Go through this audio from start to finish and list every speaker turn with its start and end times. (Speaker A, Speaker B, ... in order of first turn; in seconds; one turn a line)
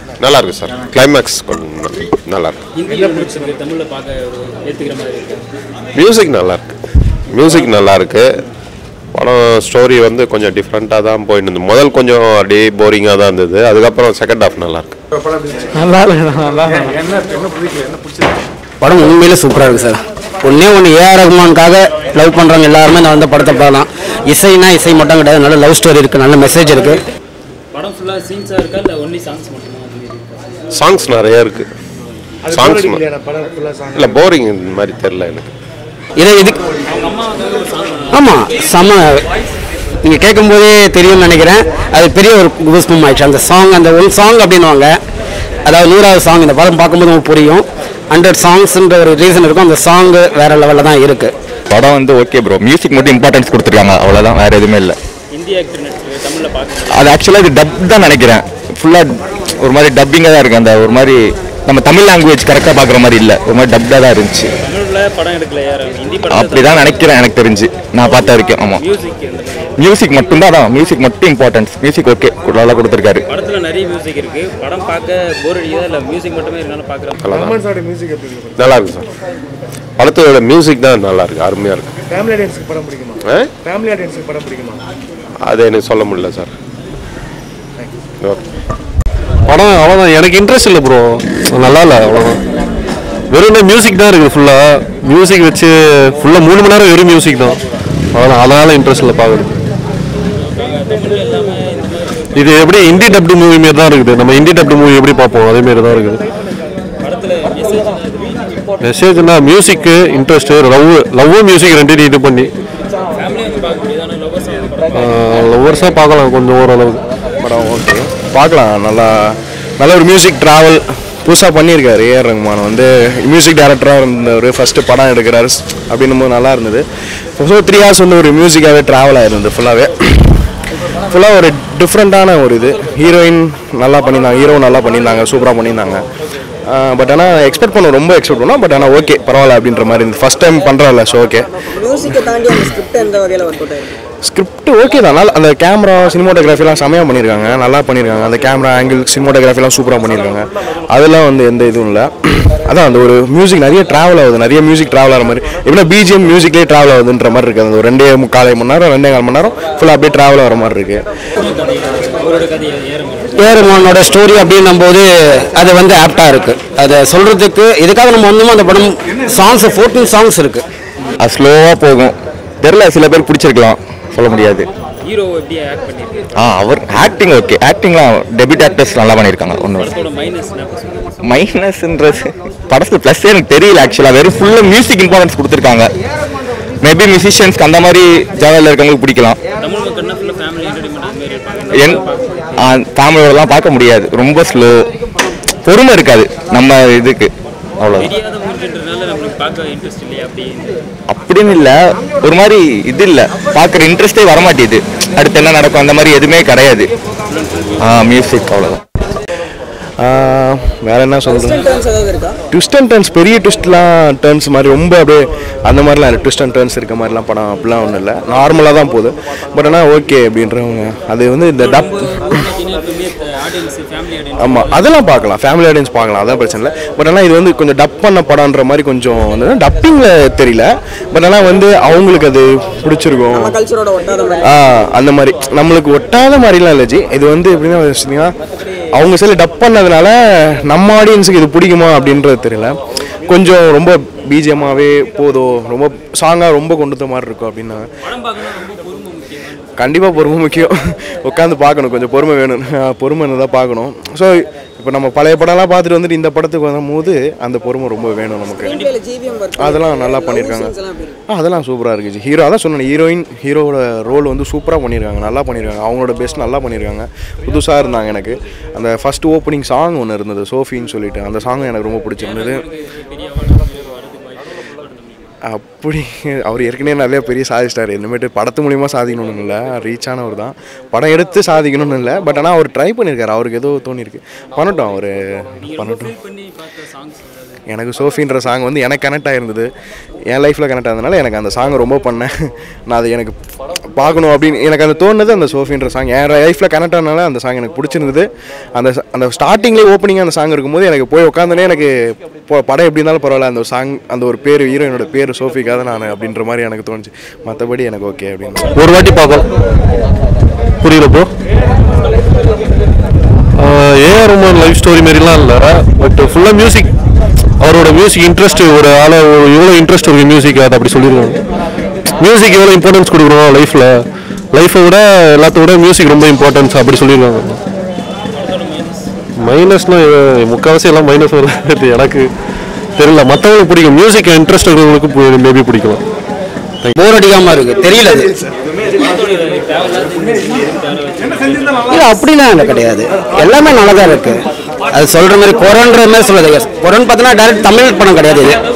Speaker A: 0.2-2.6
Speaker B: 2.7-5.4
Speaker A: 5.9-6.8
Speaker A: 7.3-8.4
Speaker A: 9.1-15.0
Speaker C: 15.8-16.5
Speaker D: 16.9-17.6
Speaker C: 18.8-27.0
Speaker B: 27.7-30.4
Speaker A: 30.7-31.7
Speaker A: 32.5-33.1
Speaker D: 32.5-34.2
Speaker A: 33.9-35.5
Speaker C: 36.2-36.6
Speaker B: 36.9-38.3
Speaker C: 38.1-39.2
Speaker C: 40.0-45.0
Speaker C: 45.6-51.3
Speaker E: 51.7-55.0
Speaker B: 55.3-57.2
Speaker E: 57.0-59.1
Speaker E: 59.6-64.5
Speaker B: 64.6-67.2
Speaker E: 66.4-68.8
Speaker B: 68.7-69.7
Speaker E: 69.8-73.2
Speaker B: 73.3-77.2
Speaker A: 77.2-77.6
Speaker D: 77.3-78.5
Speaker A: 78.5-79.1
Speaker A: 80.0-82.0
Speaker D: 82.1-84.8
Speaker A: 83.2-83.5
Speaker A: 85.4-86.5
Speaker F: 89.5-92.4
Speaker F: 93.3-97.6
Speaker F: 98.1-99.5
Speaker B: 100.4-102.5
Speaker F: 102.3-106.2
Speaker B: 107.0-108.6
Speaker F: 108.8-112.5
Speaker B: 113.1-115.4
Speaker F: 114.9-117.0
Speaker G: 117.4-126.8
Speaker G: 127.4-130.4
Speaker G: 131.0-136.0
Speaker G: 136.7-142.7
Speaker H: 141.9-143.9
Speaker G: 144.2-161.0
Speaker B: 161.4-163.3
Speaker C: 163.3-170.6
Speaker E: 171.2-174.7
Speaker B: 175.0-176.3
Speaker E: 176.4-179.8
Speaker B: 179.8-181.2
Speaker E: 181.3-182.2
Speaker E: 182.7-185.9
Speaker E: 186.8-189.4
Speaker B: 189.6-192.6
Speaker E: 192.7-194.7
Speaker E: 195.7-198.1
Speaker B: 197.9-200.8
Speaker E: 201.1-206.9
Speaker B: 207.3-208.1
Speaker E: 207.8-208.8
Speaker G: 210.0-211.7
Speaker H: 211.3-212.4
Speaker G: 212.5-222.4
Speaker B: 221.6-224.8
Speaker G: 224.4-233.6
Speaker H: 233.4-234.5
Speaker G: 234.4-238.3
Speaker G: 238.9-242.8
Speaker G: 243.3-247.9
Speaker B: 248.0-249.9
Speaker G: 249.8-258.8
Speaker B: 258.6-258.9
Speaker H: 258.8-261.2
Speaker G: 259.5-260.8
Speaker G: 261.3-272.6
Speaker B: 272.2-275.3
Speaker G: 275.4-286.1
Speaker B: 285.7-287.6
Speaker G: 287.7-289.7
Speaker G: 290.3-293.4
Speaker G: 293.9-308.7
Speaker F: 308.8-309.4
Speaker F: 310.8-311.3
Speaker F: 313.6-316.9
Speaker F: 317.6-321.4
Speaker F: 322.2-324.0
Speaker F: 324.5-327.6
Speaker B: 328.3-329.1
Speaker F: 329.4-332.3
Speaker F: 333.0-336.0
Speaker C: 336.9-338.3
Speaker B: 338.9-342.0
Speaker C: 341.9-348.6